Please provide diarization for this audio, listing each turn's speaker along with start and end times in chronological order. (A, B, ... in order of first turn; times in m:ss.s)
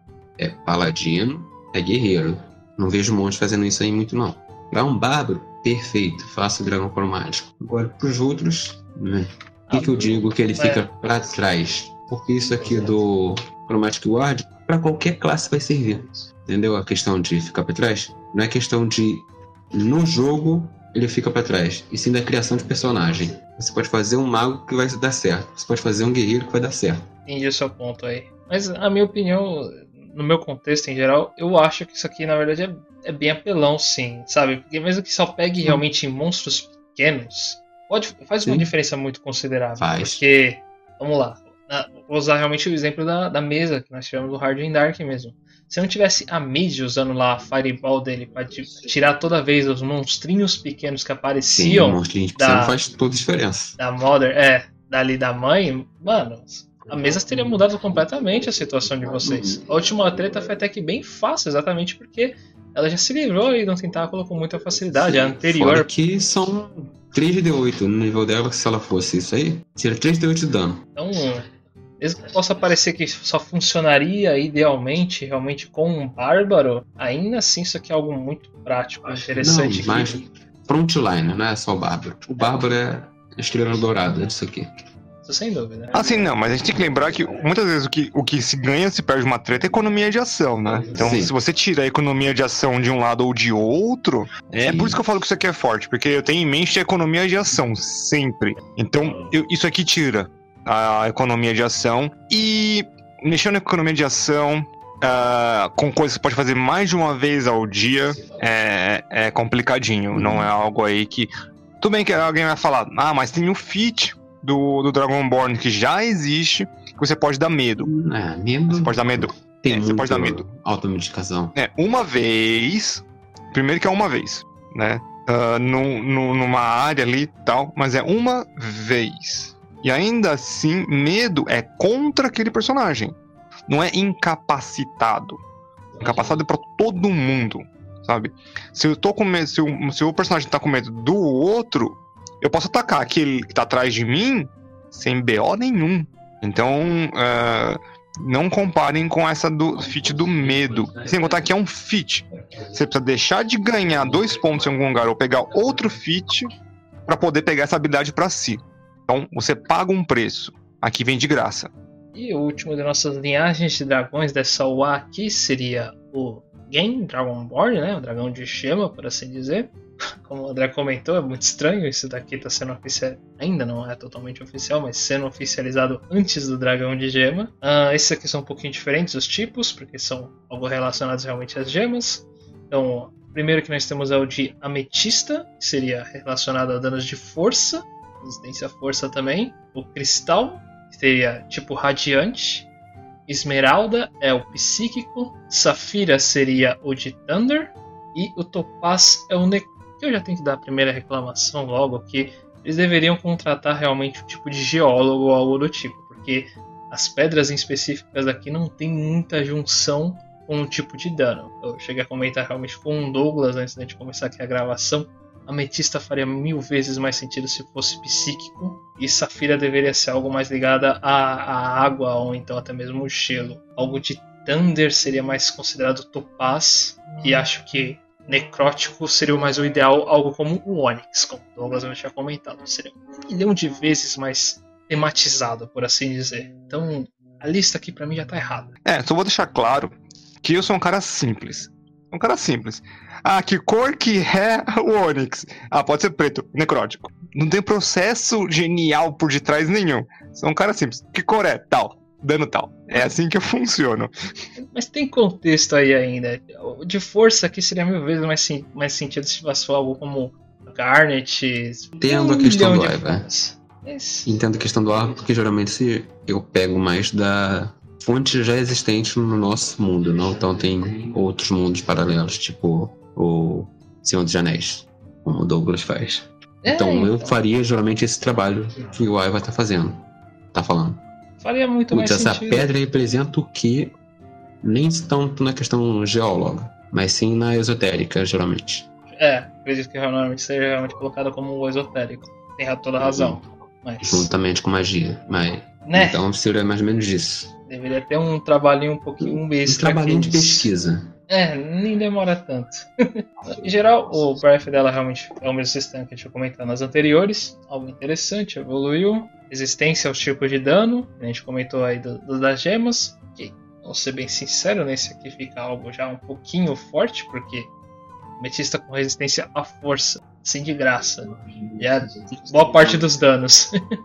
0:00.4-0:27.0 A
0:09.7-0:10.9 B
0:27.2-0:52.8 B
0:38.4-0:38.7 A
0:39.8-0:40.2 A
0:51.5-0:53.8 A
0:53.8-1:05.9 B
0:59.2-0:59.6 A
1:05.5-1:10.8 A
1:11.0-1:11.4 B
1:12.0-1:20.2 B
1:19.4-1:24.7 A
1:25.2-1:26.0 B
1:25.9-1:51.3 C
1:30.9-1:31.3 A
1:34.6-1:35.0 A
1:50.1-1:50.5 A
1:51.8-1:57.9 C
1:57.8-2:01.5 A
1:58.7-2:00.5 C
2:01.5-2:13.1 C
2:13.7-2:15.4 C
2:16.0-2:36.5 C
2:37.1-2:41.7 C
2:42.1-3:12.7 B
3:13.3-3:58.7 B
3:58.8-4:14.1 C
4:14.6-4:24.3 B
4:22.0-4:23.3 A
4:24.2-4:41.0 A
4:36.6-4:37.4 B
4:41.4-4:42.7 B
4:41.9-4:43.9 A
4:44.6-4:48.9 A
4:49.2-4:54.3 B
4:53.0-4:53.4 A
4:54.0-4:57.5 A
4:55.8-4:56.2 B
4:57.7-5:00.7 B
4:59.2-5:01.1 A
5:01.3-5:02.9 B
5:03.4-5:17.7 B
5:18.4-5:23.7 B
5:22.4-5:23.0 A